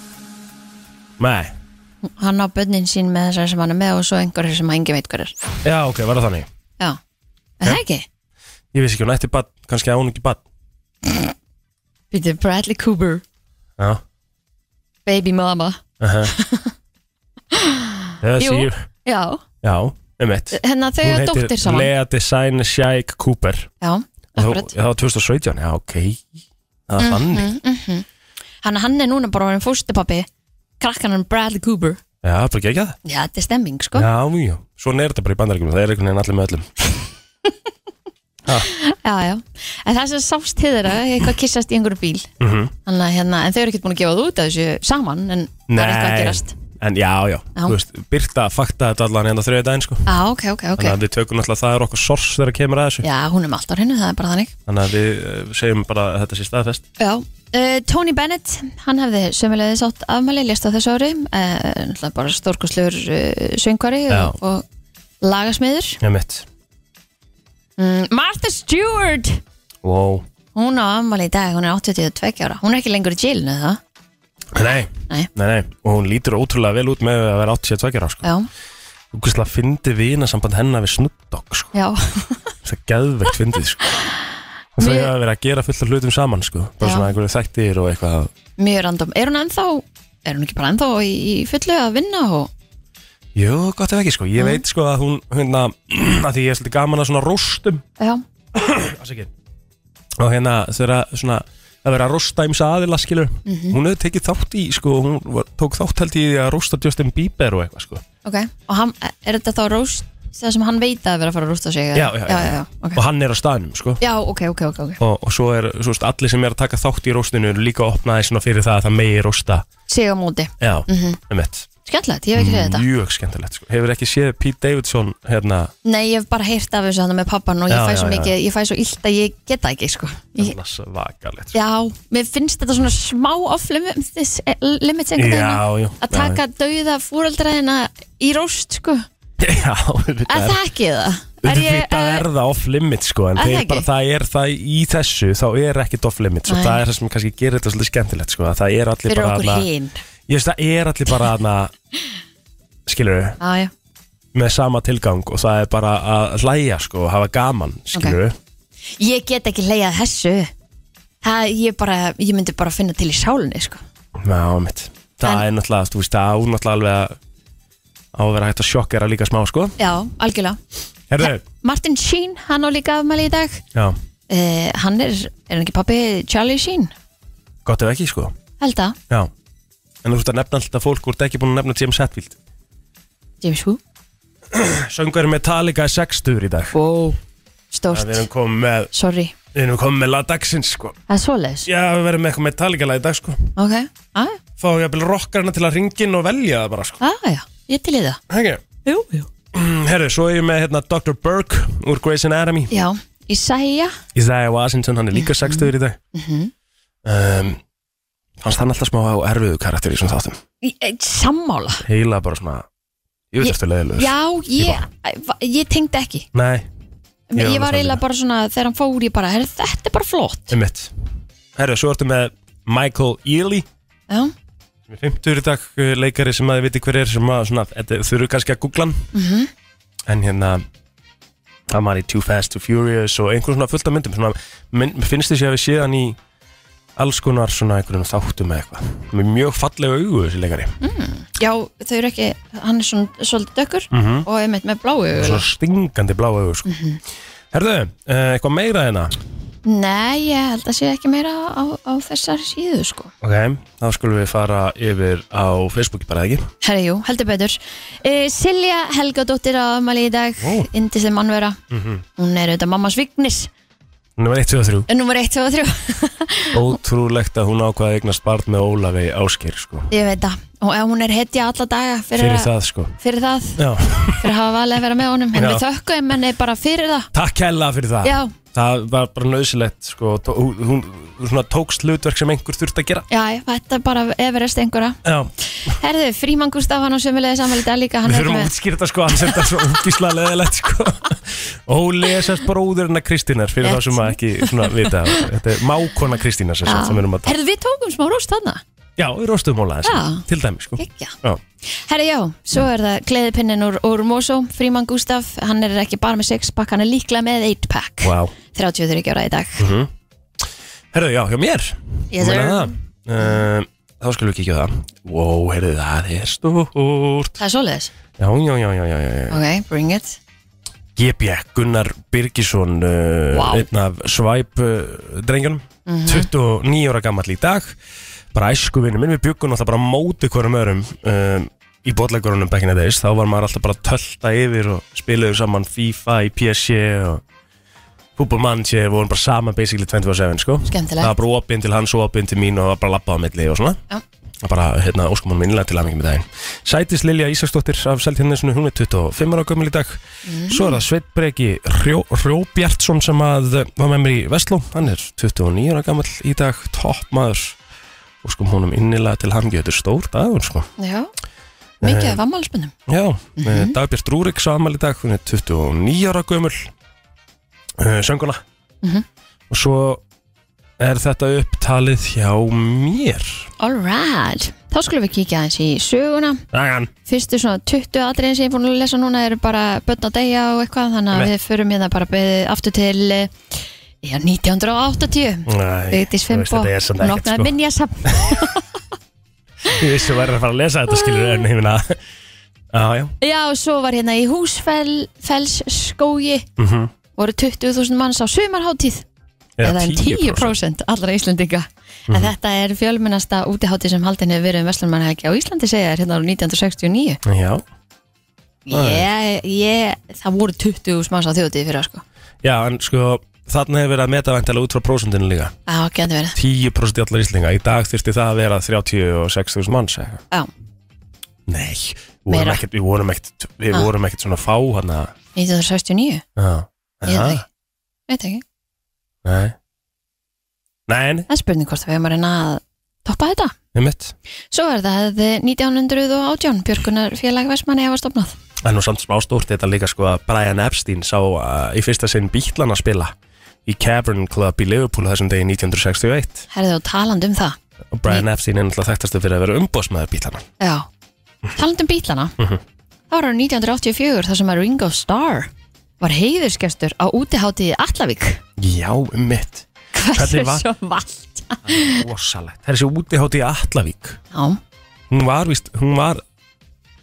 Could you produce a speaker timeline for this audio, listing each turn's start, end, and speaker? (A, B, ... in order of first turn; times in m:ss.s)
0:01.2-0:01.5 A
0:02.0-0:05.3 B
0:05.6-0:06.5 A
0:07.6-0:08.0 B
0:08.7-0:10.4 A
0:12.1-0:13.2 B
0:15.0-0:16.7 B
0:16.0-0:16.3 A
0:17.5-0:19.4 B
0:18.2-0:18.7 A
0:19.6-0:23.7 A
0:20.5-0:21.9 B
0:23.8-0:24.7 B
0:24.4-0:26.2 A
0:26.9-0:27.5 A
0:27.0-0:28.0 B
0:28.6-0:30.3 B
0:30.8-0:32.0 B
0:32.2-0:33.0 A
0:33.0-0:34.1 B
0:33.9-0:37.0 A
0:38.6-0:42.3 B
0:42.4-0:42.7 A
0:42.8-0:46.5 B
0:45.7-0:50.1 A
0:50.0-0:51.0 B
0:50.8-0:53.0 A
0:53.0-0:54.5 B
0:54.7-0:56.8 A
0:57.0-1:04.6 B
1:04.1-1:04.4 A
1:05.2-1:06.0 B
1:06.0-1:06.4 A
1:07.8-1:09.4 B
1:09.8-1:10.2 A
1:10.5-1:13.8 B
1:14.5-1:18.2 A
1:19.1-1:21.7 A
1:21.7-1:22.5 B
1:22.6-1:24.0 A
1:24.8-1:28.3 A
1:24.8-1:25.1 B
1:26.8-1:27.1 B
1:28.6-1:32.5 B
1:33.3-1:37.8 A
1:38.5-1:39.3 A
1:40.2-1:48.0 A
1:43.4-1:43.8 B
1:48.2-1:53.0 B
1:51.9-1:54.0 A
1:54.0-1:55.0 B
1:55.0-1:59.6 A
1:59.9-2:01.2 B
2:00.6-2:01.7 A
2:01.8-2:02.8 B
2:02.4-2:05.7 A
2:05.8-2:10.5 B
2:07.7-2:08.3 A
2:10.4-2:11.6 A
2:11.5-2:19.0 B
2:15.2-2:16.4 A
2:19.4-2:20.6 A
2:20.3-2:22.2 B
2:21.4-2:29.7 A
2:23.4-2:23.9 B
2:26.5-2:26.8 B
2:29.1-2:30.0 B
2:30.3-2:31.7 A
2:32.9-2:33.4 A
2:33.4-2:33.7 B
2:34.3-2:38.4 A
2:39.0-2:40.5 B
2:41.2-2:43.8 B
2:44.2-2:47.2 A
2:48.1-2:49.7 A
2:49.8-2:50.6 B
2:51.1-2:51.4 A
2:51.2-2:53.6 B
2:54.3-2:56.9 B
2:57.6-2:58.3 A
2:58.6-2:59.0 B
3:00.0-3:02.4 A
3:03.4-3:03.8 B
3:04.5-3:06.7 A
3:06.7-3:07.2 B
3:07.7-3:08.3 B
3:07.9-3:08.9 A
3:08.9-3:09.3 B
3:09.5-3:11.0 A
3:11.1-3:11.7 B
3:11.6-3:13.5 A
3:13.6-3:14.4 B
3:14.6-3:17.0 A
3:17.0-3:18.2 B
3:18.3-3:18.6 A
3:18.8-3:19.3 B
3:19.5-3:22.7 A
3:22.7-3:24.0 B
3:24.1-3:26.0 A
3:25.1-3:26.5 B
3:27.0-3:27.6 A
3:28.4-3:30.4 A
3:30.6-3:31.8 B
3:31.8-3:32.6 A
3:33.3-3:34.8 A
3:33.4-3:36.3 B
3:36.3-3:36.7 A
3:37.3-3:40.5 B
3:37.4-3:38.0 A
3:40.5-3:40.9 A
3:41.6-3:43.6 A
3:44.9-3:49.1 A
3:49.1-3:49.5 B
3:50.1-3:50.6 A
3:51.7-3:56.2 A
3:57.0-4:00.7 A
4:00.8-4:05.4 B
4:03.9-4:04.2 A
4:05.2-4:06.7 A
4:06.6-4:07.0 B
4:07.5-4:09.1 A
4:09.6-4:13.1 B
4:13.2-4:16.5 A
4:16.6-4:21.6 B
4:20.4-4:20.7 A
4:21.7-4:22.0 A
4:22.2-4:23.5 B
4:24.2-4:24.9 A
4:24.9-4:26.7 B
4:26.5-4:29.9 A
4:29.9-4:33.6 B
4:32.1-4:32.9 A
4:33.6-4:34.3 A
4:34.2-4:37.1 B
4:35.3-4:35.6 A
4:37.1-4:43.1 A
4:38.0-4:38.3 B
4:43.1-4:48.5 B
4:45.0-4:45.3 A
4:48.0-4:57.3 A
4:53.6-4:55.2 B
4:56.6-4:58.6 B
4:59.0-5:01.4 A
4:59.8-5:00.2 B
5:00.8-5:09.6 B
5:08.0-5:08.3 A
5:09.6-5:09.9 A
5:10.9-5:17.4 A
5:12.1-5:13.4 B
5:17.4-5:17.9 B
5:18.2-5:19.4 A
5:19.3-5:20.2 B
5:21.0-5:27.8 A
5:23.3-5:23.7 B
5:25.9-5:26.3 B
5:28.3-5:37.2 A
5:38.2-5:43.8 A
5:40.7-5:41.1 B
5:44.4-5:57.6 A
5:50.2-5:50.8 B
5:58.2-6:00.7 A
6:00.8-6:01.1 B
6:01.8-6:02.2 A
6:01.8-6:02.7 B
6:02.9-6:06.7 A
6:03.4-6:03.7 B
6:07.8-6:08.4 A
6:09.5-6:10.0 A
6:10.8-6:13.5 A
6:13.6-6:16.4 B
6:16.5-6:16.9 A
6:17.1-6:23.3 B
6:24.0-6:28.6 B
6:25.5-6:27.5 A
6:29.7-6:32.0 A
6:31.0-6:31.3 B
6:32.7-6:33.1 A
6:33.2-6:36.5 B
6:36.6-6:36.9 A
6:37.2-6:39.0 B
6:39.6-6:40.5 A
6:39.6-6:47.2 B
6:47.2-6:47.6 A
6:48.7-6:52.0 B
6:48.7-6:49.0 A
6:52.4-6:55.5 A
6:55.7-6:56.4 B
6:56.3-7:00.2 A
7:01.5-7:05.1 A
7:02.3-7:02.6 B
7:05.3-7:06.2 B
7:06.4-7:07.4 A
7:07.0-7:07.4 B
7:08.1-7:08.4 B
7:09.2-7:09.5 A
7:10.9-7:11.3 A
7:11.3-7:13.5 B
7:13.7-7:14.1 A
7:14.5-7:18.4 B
7:18.6-7:23.1 A
7:23.6-7:26.4 A
7:26.5-7:27.6 B
7:27.9-7:30.4 A
7:30.6-7:30.9 B
7:31.5-7:32.3 B
7:33.1-7:38.4 B
7:38.6-7:40.6 A
7:39.9-7:42.0 B
7:41.7-7:44.2 A
7:44.3-7:44.6 B
7:45.1-7:46.2 A